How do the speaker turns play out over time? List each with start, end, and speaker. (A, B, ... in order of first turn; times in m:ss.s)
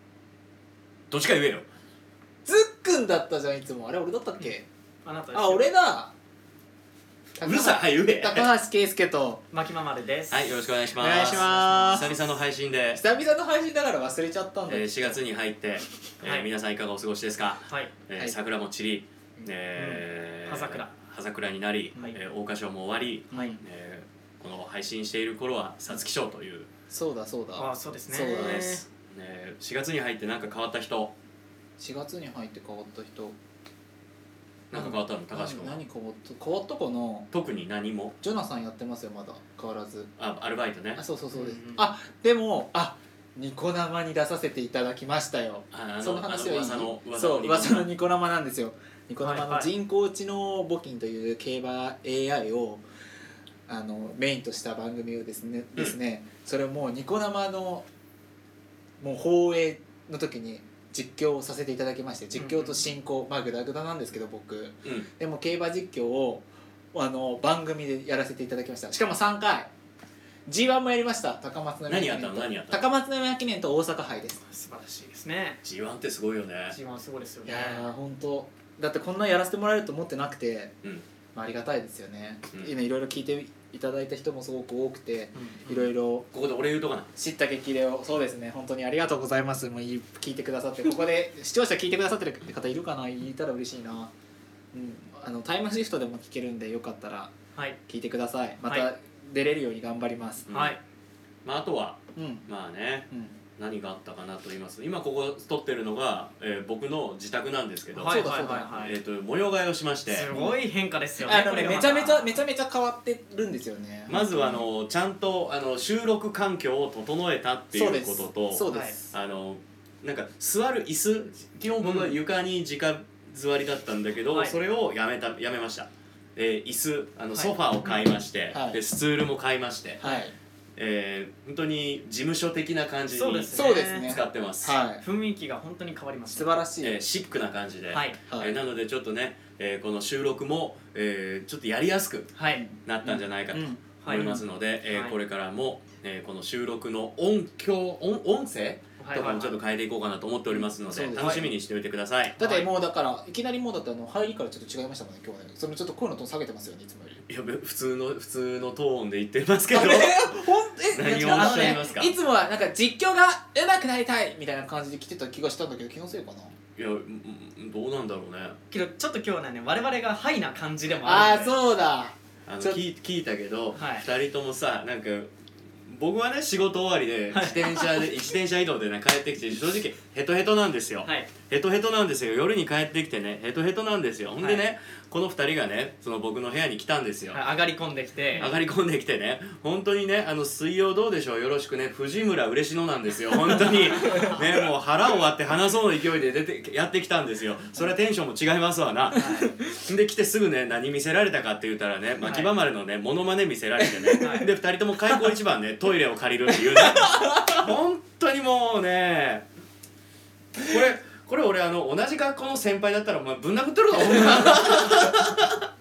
0:01.1-0:01.6 A
0:02.5-0:04.6 B
0:05.0-0:05.6 C
0:05.3-0:06.1 B
0:07.4-0:09.4 B
0:07.4-0:08.5 A
0:09.5-0:12.1 C
0:10.3-0:13.0 A
0:11.0-0:12.2 B
0:12.9-0:15.2 B
0:14.7-0:26.7 A
0:16.2-0:16.5 C
0:17.7-0:17.9 C
0:19.8-0:20.9 C
0:23.3-0:23.6 C
0:23.3-0:23.6 B
0:26.9-0:28.8 B
0:27.6-0:28.8 C
0:28.2-0:31.1 A
0:31.8-0:33.4 B
0:34.7-0:35.8 A
0:34.7-0:37.3 B
0:37.3-0:38.2 A
0:38.2-0:40.1 B
0:40.2-0:41.0 A
0:41.0-0:52.8 B
0:41.3-0:41.9 C
0:45.7-0:47.9 A
0:49.2-0:49.7 C
0:53.7-0:57.9 B
0:59.0-1:09.7 B
1:02.3-1:02.8 C
1:10.5-1:14.4 B
1:11.9-1:12.9 A
1:14.4-1:15.6 C
1:15.6-1:16.8 A
1:16.7-1:17.9 C
1:17.4-1:20.7 B
1:21.3-1:26.3 B
1:25.3-1:25.9 C
1:26.3-1:27.1 A
1:27.2-1:34.1 B
1:34.7-1:37.3 B
1:37.9-1:40.5 B
1:40.5-1:40.8 A
1:40.5-1:40.8 C
1:41.4-1:50.3 A
1:42.2-1:42.5 B
1:43.1-1:43.4 B
1:47.9-1:49.0 C
1:48.1-1:48.8 B
1:50.1-1:52.4 C
1:50.3-1:50.6 B
1:51.2-1:54.6 B
1:54.1-2:10.0 A
1:57.7-1:59.1 B
1:58.7-1:59.0 C
2:01.8-2:02.2 C
2:04.3-2:04.6 C
2:07.3-2:08.0 C
2:08.5-2:08.8 B
2:10.0-2:10.3 B
2:10.8-2:14.8 A
2:13.1-2:14.2 C
2:13.5-2:15.0 B
2:15.0-2:16.6 C
2:16.3-2:17.0 B
2:16.8-2:22.3 A
2:17.9-2:18.2 C
2:18.3-2:18.6 B
2:22.4-2:22.6 C
2:22.5-2:24.4 B
2:22.8-2:32.4 A
2:24.0-2:25.2 C
2:29.0-2:29.6 C
2:30.5-2:31.5 B
2:31.2-2:31.4 C
2:32.4-2:32.7 C
2:32.4-2:37.2 B
2:37.3-2:40.4 A
2:39.7-2:46.5 B
2:40.9-2:42.1 A
2:41.1-2:41.9 C
2:46.8-2:48.6 A
2:48.7-2:51.6 C
2:51.0-2:52.8 B
2:52.5-2:55.3 A
2:53.8-2:54.1 C
2:55.8-3:07.4 A
2:57.3-2:58.1 C
3:01.0-3:01.3 C
3:07.3-3:08.5 C
3:08.4-3:29.4 A
3:19.1-3:19.5 C
3:22.2-3:22.5 C
3:24.2-3:24.5 C
3:26.8-3:27.6 B
3:30.6-3:35.6 A